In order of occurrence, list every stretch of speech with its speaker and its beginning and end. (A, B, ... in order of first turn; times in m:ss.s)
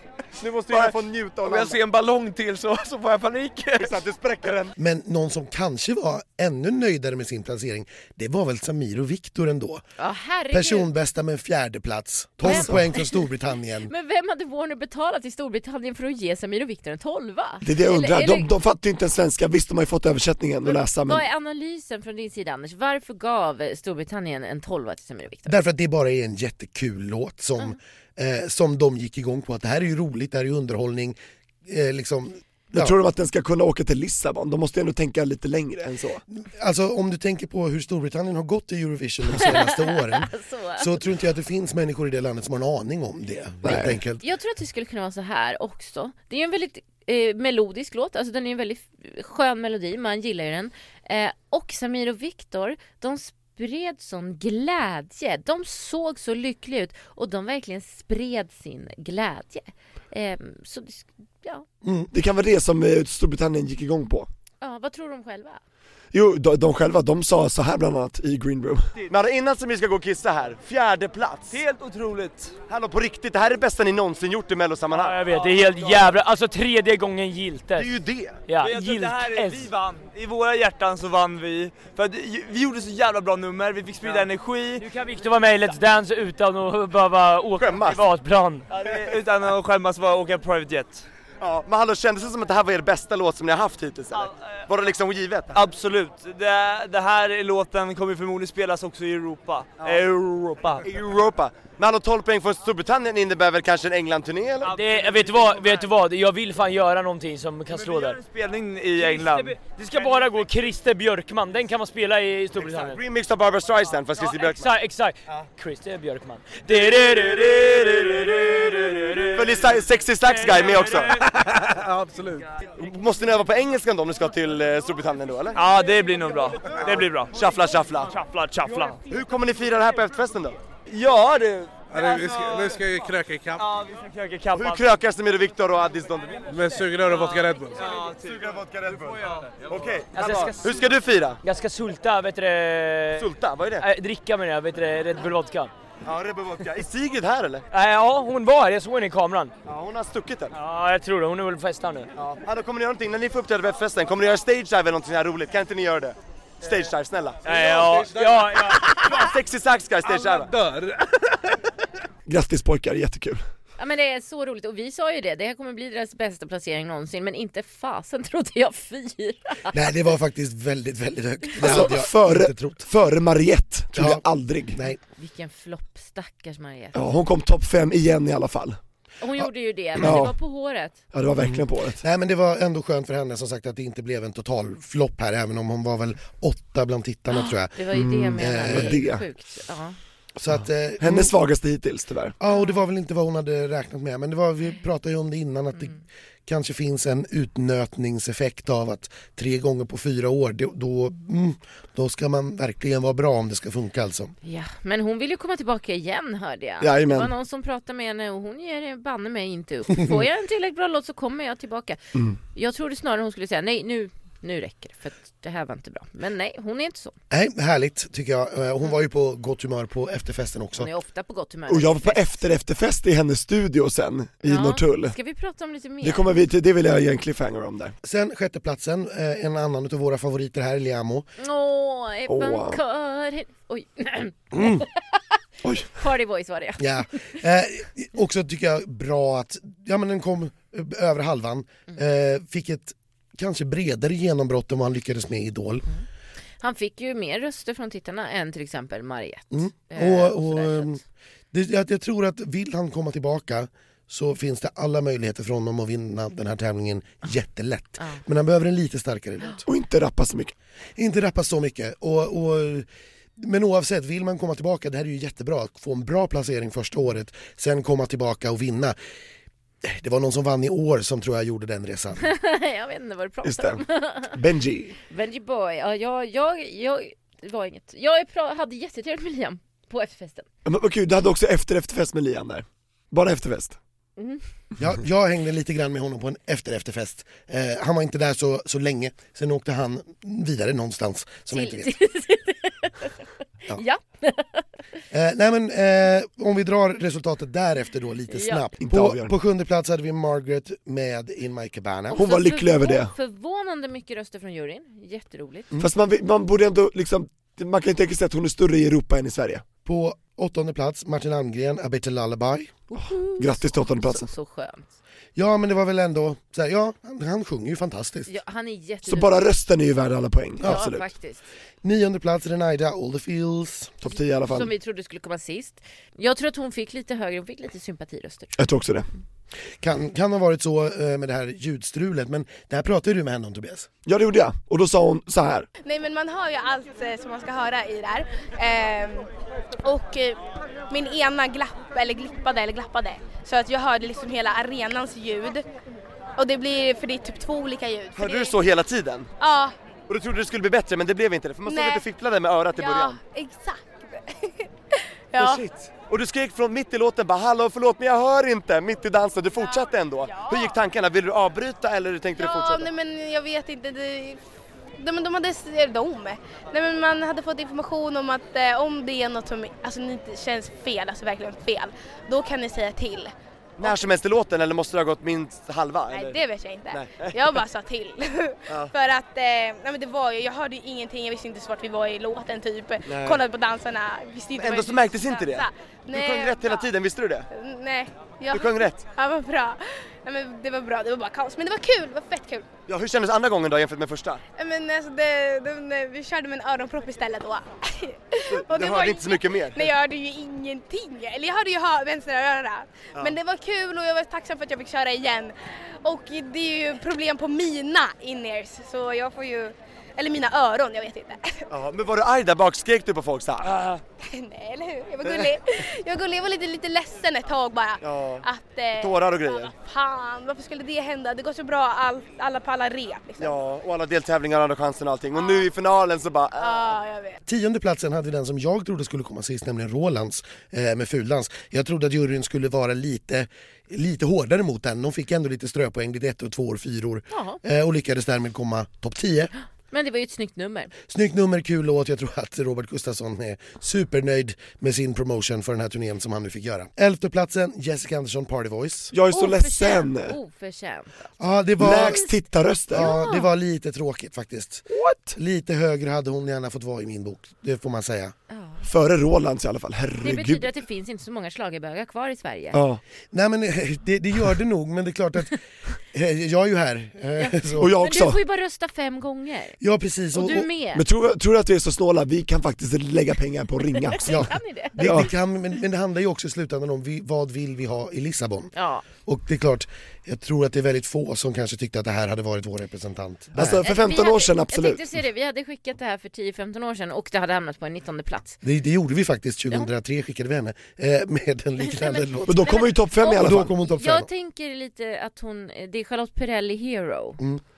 0:00.4-0:01.8 A
0:00.7-0:04.5 B
0:03.8-0:04.8 A
0:04.8-0:09.8 C
0:10.0-0:10.9 D
0:10.5-0:13.9 C
0:12.4-0:13.0 D
0:12.5-0:12.8 E
0:13.9-0:18.5 D
0:17.6-0:21.2 E
0:20.7-0:25.6 D
0:25.5-0:33.0 C
0:32.7-0:36.2 E
0:36.4-0:44.2 C
0:39.4-0:40.9 D
0:43.6-0:44.0 E
0:44.2-1:01.7 D
1:01.8-1:02.1 C
1:02.1-1:04.3 E
1:04.6-1:05.6 D
1:06.1-1:08.9 E
1:09.1-1:11.6 A
1:11.5-1:12.6 F
1:12.7-1:15.2 A
1:15.0-1:17.9 G
1:15.3-1:15.9 F
1:17.8-1:18.4 A
1:18.5-1:19.7 G
1:18.6-1:24.8 F
1:24.8-1:28.7 G
1:27.6-1:28.0 A
1:28.7-1:31.1 F
1:31.4-1:35.6 A
1:35.5-1:40.9 F
1:40.8-1:44.8 A
1:44.6-1:45.9 F
1:44.7-1:48.2 G
1:47.7-1:49.7 F
1:49.0-1:53.0 G
1:52.6-1:54.7 A
1:54.2-2:01.2 G
1:59.3-2:01.2 A
2:01.3-2:02.5 H
2:02.8-2:05.6 A
2:05.6-2:07.3 F
2:06.8-2:07.3 G
2:06.8-2:08.1 A
2:08.1-2:09.0 G
2:08.1-2:08.9 F
2:09.1-2:10.6 A
2:10.9-2:12.8 F
2:11.9-2:13.6 H
2:13.6-2:15.0 F
2:14.5-2:16.5 A
2:16.5-2:17.8 H
2:17.1-2:18.4 F
2:17.9-2:21.4 A
2:20.1-2:25.7 G
2:23.2-2:23.9 A
2:26.0-2:27.6 A
2:27.7-2:29.5 G
2:29.7-2:30.5 A
2:30.5-2:32.1 G
2:32.2-2:37.4 A
2:37.4-2:39.3 G
2:37.5-2:38.8 H
2:39.0-2:40.5 A
2:40.0-2:41.4 H
2:42.3-2:43.4 E
2:43.8-2:49.8 D
2:49.7-2:52.8 C
2:51.6-2:54.8 E
2:51.6-2:51.9 D
2:53.9-2:55.0 C
2:55.1-2:57.1 D
2:56.9-2:58.8 E
2:59.2-3:01.0 D
3:00.0-3:00.4 E
3:00.0-3:00.3 C
3:01.1-3:02.0 E
3:01.5-3:07.8 C
3:07.3-3:10.0 D
3:07.9-3:09.3 E
3:08.4-3:09.0 C
3:10.4-3:11.3 C
3:11.0-3:12.4 E
3:12.4-3:24.4 C
3:12.5-3:12.8 D
3:24.4-3:37.2 D
3:26.8-3:27.3 E
3:37.3-3:40.9 C
3:40.8-3:42.4 D
3:41.7-3:45.2 E
3:44.4-3:46.3 D
3:46.0-3:47.9 E
3:48.0-3:51.3 C
3:51.4-3:55.2 D
3:52.3-3:52.8 E
3:54.5-3:54.8 C
3:55.6-3:55.9 E
3:55.8-3:57.4 D
3:56.8-4:05.9 C
4:06.6-4:11.0 D
4:09.5-4:11.0 C
4:11.5-4:19.6 C
4:19.6-4:20.5 E
4:21.0-4:29.0 C
4:29.8-4:32.3 C
4:32.2-4:34.4 D
4:33.4-4:35.0 E
4:35.1-4:40.5 D
4:40.6-4:43.8 E
4:44.2-4:44.4 D
4:44.8-4:52.0 C
4:51.5-4:53.2 D
4:53.7-4:54.6 D
4:55.1-5:02.2 C
4:58.3-4:58.7 D
4:58.8-4:59.3 E
5:02.1-5:05.7 D
5:02.1-5:03.1 E
5:05.8-5:09.7 E
5:09.8-5:12.8 C
5:12.9-5:14.9 D
5:13.3-5:14.3 E
5:15.4-5:18.3 C
5:18.3-5:19.4 D
5:19.0-5:21.1 E
5:20.6-5:21.4 D
5:21.8-5:24.0 C
5:24.0-5:24.7 E
5:24.1-5:28.6 D
5:28.6-5:29.1 E
5:29.8-5:33.9 C
5:34.1-5:35.7 E
5:35.8-5:39.3 I
5:39.8-5:40.4 I
5:40.9-5:45.6 I
5:46.4-5:48.6 I
5:48.2-5:49.3 A
5:49.4-5:49.8 I
5:50.1-5:53.2 A
5:51.7-5:52.0 I
5:52.8-5:55.6 I
5:55.4-6:02.9 A
5:59.6-6:00.8 I
6:02.4-6:04.4 I
6:05.0-6:14.0 I
6:13.8-6:16.4 A
6:16.1-6:26.9 I
6:16.9-6:17.6 A
6:18.7-6:18.9 A
6:23.1-6:23.4 A
6:24.6-6:27.5 A
6:27.5-6:32.7 I
6:28.5-6:29.0 A
6:32.9-6:34.4 A
6:34.6-6:51.7 I
6:38.5-6:39.9 A
6:51.7-6:54.0 A
6:54.2-7:03.6 I
6:55.3-6:55.5 A
6:58.0-6:59.7 A
7:03.4-7:07.0 A
7:05.3-7:05.7 I
7:06.6-7:07.4 I
7:07.5-7:19.5 C
7:17.3-7:17.6 D
7:19.9-7:20.9 D
7:21.1-7:29.1 C
7:29.1-7:30.4 E
7:29.3-7:31.3 D
7:31.4-7:32.3 C
7:31.8-7:33.1 E
7:31.8-7:32.4 D
7:32.9-7:38.4 C
7:32.9-7:33.5 D
7:34.9-7:35.4 E
7:38.5-7:38.9 D
7:38.8-7:40.7 E
7:40.2-7:42.8 D
7:42.7-7:43.0 E
7:43.3-7:45.6 C
7:46.1-7:47.9 C
7:47.4-7:49.8 D
7:47.8-7:48.4 E
7:49.8-7:50.7 C
7:50.3-7:51.0 D
7:50.9-7:55.3 E
7:54.1-7:55.3 D
7:54.2-7:58.7 C
7:58.7-7:59.0 D
7:59.2-8:03.8 C
8:03.5-8:05.1 E
8:03.8-8:08.6 D
8:08.6-8:12.8 C
8:11.8-8:17.4 D
8:12.5-8:13.7 E
8:13.4-8:14.3 C